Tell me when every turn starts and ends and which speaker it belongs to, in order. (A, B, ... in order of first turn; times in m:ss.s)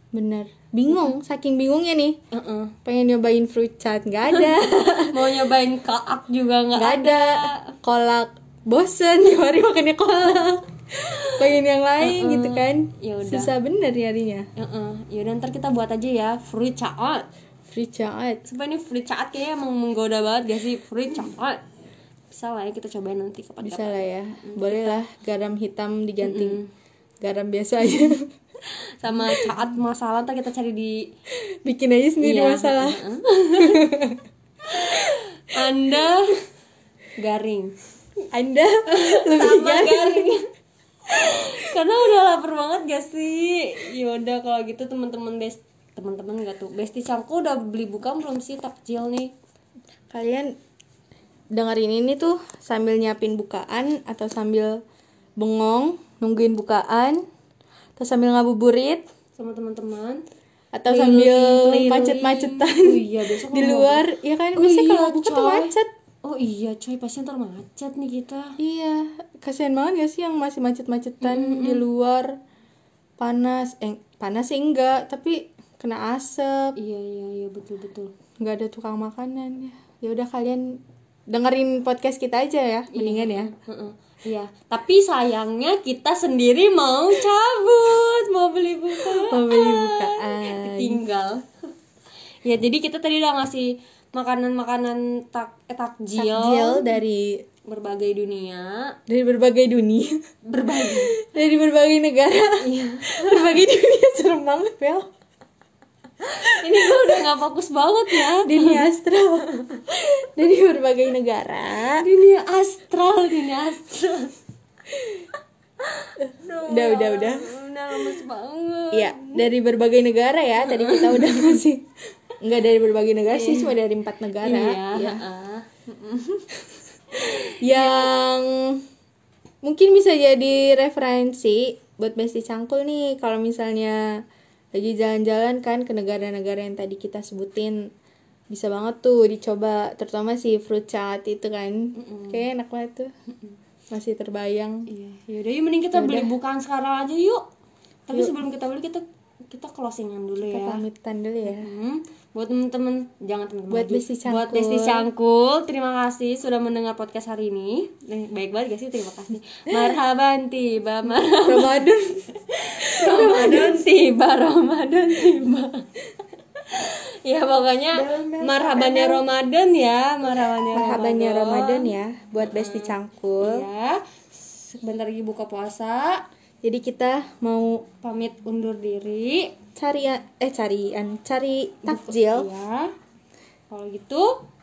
0:00.1-0:02.2 A
0:02.3-0:02.8 B
0:02.8-0:05.4 A
0:04.3-0:07.7 B
0:06.8-0:14.5 A
0:11.1-0:13.5 B
0:14.6-0:17.2 B
0:17.7-0:18.4 A
0:18.5-0:21.6 B
0:22.3-0:25.0 B
0:23.6-0:26.6 A
0:26.2-0:26.7 B
0:27.2-0:28.3 A
0:28.7-0:31.0 B
0:29.3-0:29.6 A
0:31.6-0:33.0 A
0:32.2-0:33.9 B
0:33.6-0:34.2 A
0:34.7-0:36.4 B
0:37.2-0:37.8 B
0:38.3-0:40.3 A
0:38.9-0:40.4 B
0:41.1-0:49.3 B
0:50.1-0:50.6 A
0:51.5-0:54.8 A
0:55.4-0:57.2 A
0:58.0-0:59.0 A
0:59.4-1:00.2 B
1:00.7-1:05.9 A
1:00.9-1:08.6 B
1:08.6-1:12.4 A
1:11.2-1:11.8 B
1:13.2-1:16.7 A
1:16.8-1:18.1 B
1:18.4-1:20.8 A
1:21.3-1:23.5 A
1:22.9-1:31.4 B
1:29.0-1:31.0 A
1:32.4-1:36.9 B
1:36.2-1:37.4 A
1:37.6-1:39.0 B
1:39.1-1:40.2 A
1:40.5-1:41.2 B
1:40.8-1:45.1 A
1:42.6-1:43.6 B
1:46.2-1:48.9 B
1:46.6-1:47.2 A
1:48.3-1:52.1 A
1:49.5-1:49.8 B
1:51.8-1:54.3 B
1:55.8-1:59.5 B
1:56.2-1:57.5 A
1:58.9-2:01.9 A
2:00.6-2:01.6 B
2:02.4-2:05.2 A
2:03.3-2:03.7 B
2:04.4-2:06.4 B
2:07.1-2:08.1 B
2:07.3-2:08.8 A
2:09.6-2:14.1 A
2:14.8-2:17.9 A
2:18.5-2:23.1 A
2:22.0-2:22.5 B
2:23.9-2:24.9 A
2:24.9-2:27.4 B
2:25.9-2:26.3 A
2:28.1-2:30.8 B
2:30.5-2:31.7 A
2:31.5-2:45.8 B
2:33.7-2:35.1 A
2:41.4-2:42.2 A
2:43.0-2:43.8 A
2:46.6-2:56.2 B
2:47.9-2:49.2 A
2:50.7-2:53.7 A
2:56.6-2:57.8 A
2:58.0-2:59.5 B
2:59.8-3:02.5 A
3:01.9-3:02.9 B
3:03.7-3:04.4 B